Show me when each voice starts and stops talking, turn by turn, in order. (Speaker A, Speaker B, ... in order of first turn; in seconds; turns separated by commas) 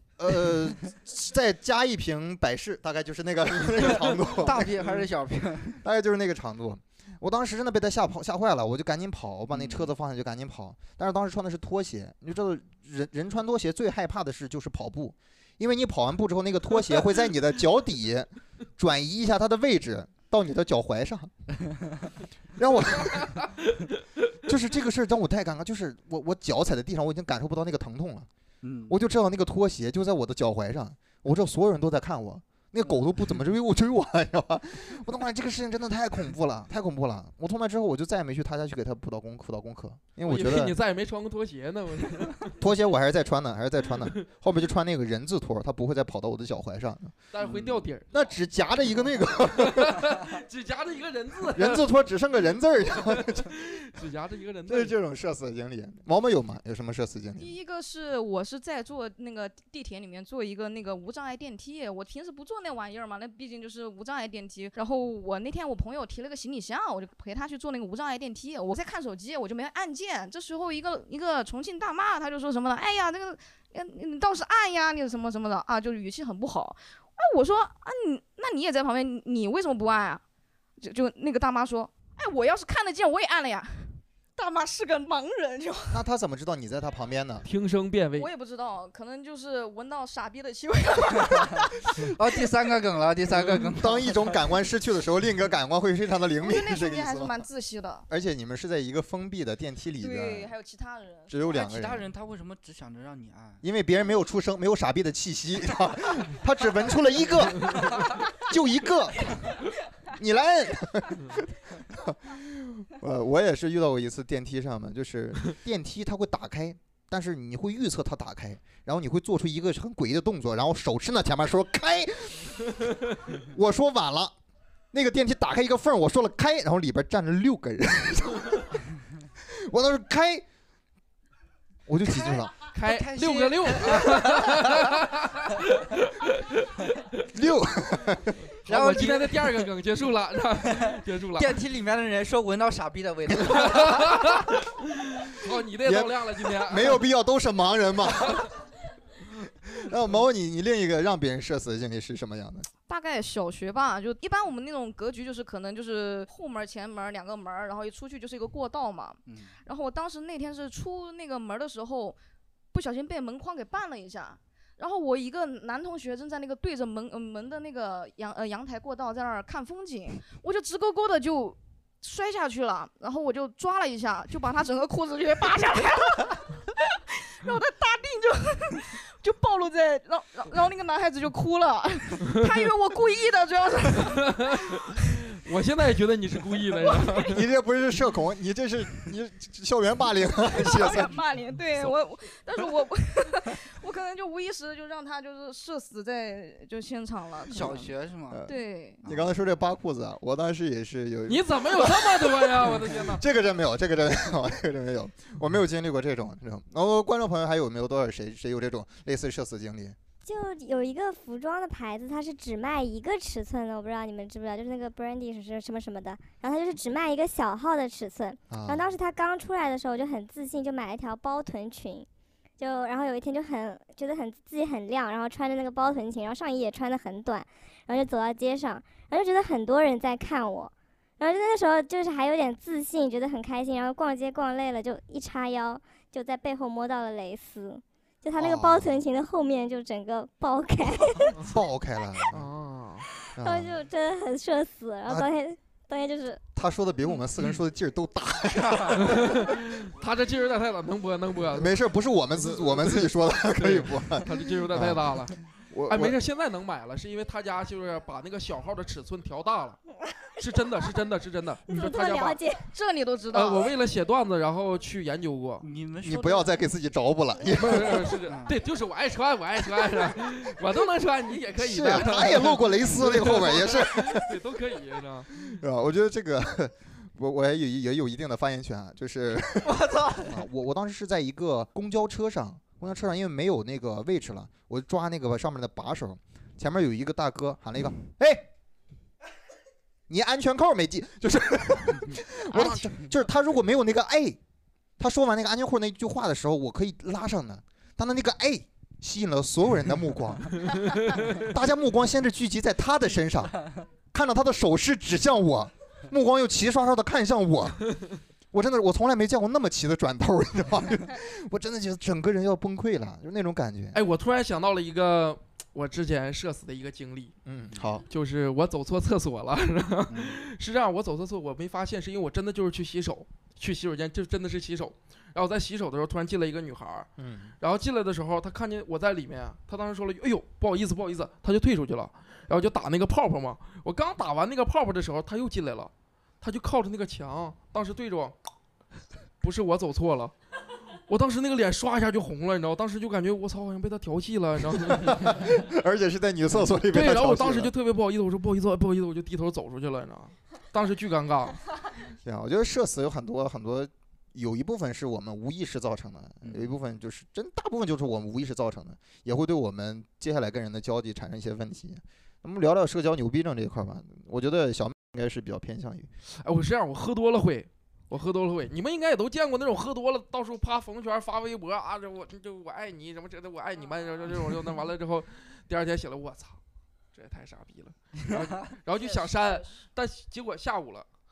Speaker A: 0.2-4.7, Speaker B: 4.2-5.8, Speaker A: 5.8-21.3, Speaker B: 9.5-9.9, Speaker A: 22.6-23.4, Speaker C: 23.1-23.9, Speaker A: 24.4-28.3, Speaker B: 28.6-29.0, Speaker A: 28.9-40.7, Speaker C: 40.2-42.6, Speaker A: 42.6-47.1, Speaker C: 47.3-48.2, Speaker B: 47.4-47.8, Speaker A: 48.1-50.1, Speaker C: 49.5-51.9, Speaker A: 51.5-53.6, Speaker C: 52.9-54.9, Speaker A: 54.7-57.5, Speaker D: 57.4-80.2, Speaker D: 80.8-86.0, Speaker A: 85.9-87.5, Speaker C: 87.4-88.3, Speaker D: 88.2-92.0, Speaker B: 92.0-94.4, Speaker A: 93.8-97.4, Speaker D: 96.4-98.1, Speaker A: 98.1-100.5, Speaker D: 100.0-101.7, Speaker A: 101.3-102.1, Speaker B: 101.5-103.6, Speaker A: 103.6-109.5, Speaker A: 110.1-122.8, Speaker A: 123.3-124.3, Speaker A: 124.9-128.8, Speaker A: 129.4-130.4, Speaker A: 131.9-132.6, Speaker C: 132.6-137.3, Speaker B: 132.7-134.7, Speaker A: 137.3-138.4, Speaker B: 138.7-139.7, Speaker C: 138.7-141.6, Speaker B: 140.7-144.3, Speaker C: 143.5-147.0, Speaker A: 145.8-148.5, Speaker A: 149.6-152.7, Speaker D: 152.9-162.2, Speaker B: 159.3-159.5, Speaker D: 162.7-185.1, Speaker C: 182.3-182.6, Speaker C: 184.0-187.4, Speaker D: 186.8-187.3, Speaker A: 187.3-191.2, Speaker D: 190.5-197.9, Speaker B: 197.5-198.4, Speaker A: 198.3-210.0, Speaker D: 198.4-199.0, Speaker B: 199.0-199.3, Speaker C: 201.3-203.2, Speaker E: 210.2-222.1, Speaker A: 218.5-218.9, Speaker E: 222.6-241.4, Speaker A: 238.3-239.0, Speaker A: 241.4-242.5, Speaker C: 242.3-243.1, Speaker E: 243.2-246.4, Speaker A: 243.3-243.8, Speaker A: 246.5-249.5, Speaker B: 248.6-248.9, Speaker C: 248.9-251.7, Speaker A: 251.5-256.1, Speaker C: 252.4-259.8, Speaker C: 260.4-262.4, Speaker E: 261.7-262.7, Speaker D: 262.7-263.7, Speaker C: 263.3-265.6, Speaker B: 265.6-266.5, Speaker A: 266.0-268.2, Speaker C: 267.5-275.6, Speaker B: 268.2-268.5, Speaker A: 271.6-274.4, Speaker A: 275.4-288.5, Speaker B: 279.6-280.4, Speaker A: 290.1-294.4, Speaker C: 292.5-293.0, Speaker A: 295.0-307.8, Speaker C: 300.7-301.4, Speaker A: 308.5-314.0, Speaker C: 313.9-317.3, Speaker A: 317.4-318.1, Speaker C: 318.1-327.1, Speaker B: 320.1-320.4, Speaker A: 327.2-327.5, Speaker C: 327.6-338.4, Speaker C: 339.4-340.3, Speaker C: 341.1-345.5, Speaker A: 344.9-347.7, Speaker C: 346.9-351.6, Speaker A: 352.2-366.1, Speaker B: 356.4-356.7, Speaker C: 366.4-376.6, Speaker C: 377.1-381.1, Speaker D: 378.9-379.8